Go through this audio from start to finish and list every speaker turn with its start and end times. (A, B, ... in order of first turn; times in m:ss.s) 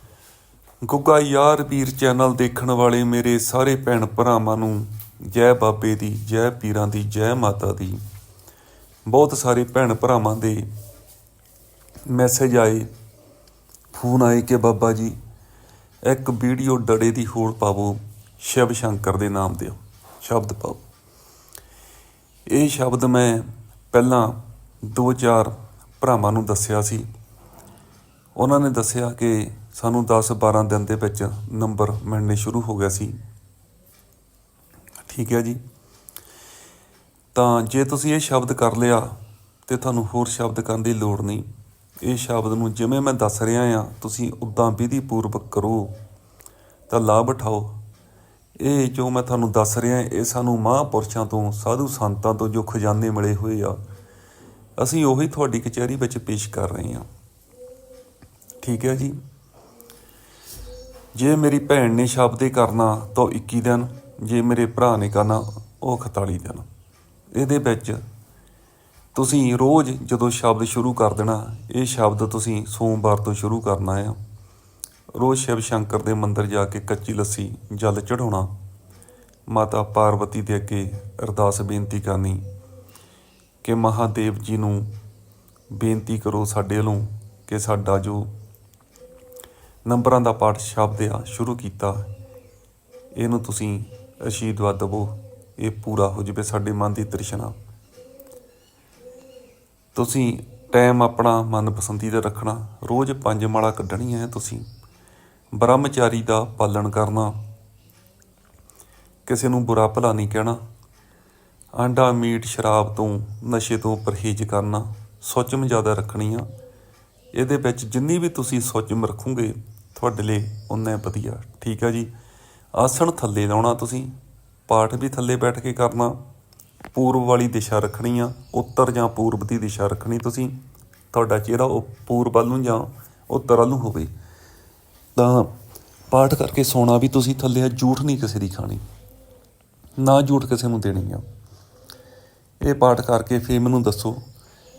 0:00.8-0:08.0 A
0:09.1-0:10.7 A
0:12.1-0:12.9 A
0:13.9-0:15.2 A
0:16.0-0:20.8 A
0:22.5-0:27.1 A
0:28.4-0:33.2 A
0:35.1-0:35.6 A
0:37.3-0:41.5 A
0:42.0-0:46.0 A
0:46.9-0:47.8 A
0:48.6-0:53.8 A
0:54.8-0:57.1 A
0:58.6-0:59.2 A
1:01.2-1:06.7 A
1:07.3-1:08.0 A
1:09.1-1:14.2 A
1:15.1-1:18.5 A
1:19.5-1:22.4 A
1:23.6-1:24.9 A
1:25.7-1:28.3 A
1:29.9-1:32.1 A
1:33.2-1:37.6 A
1:39.9-1:44.7 A
1:45.5-1:47.4 A
1:49.3-1:50.6 A
1:51.8-1:56.5 A
1:57.3-2:02.1 A
2:02.7-2:04.2 A
2:04.7-2:06.2 A
2:06.9-2:10.6 A
2:11.1-2:14.1 A
2:15.2-2:15.5 A
2:16.1-2:18.8 A
2:20.0-2:21.2 A
2:22.6-2:24.2 A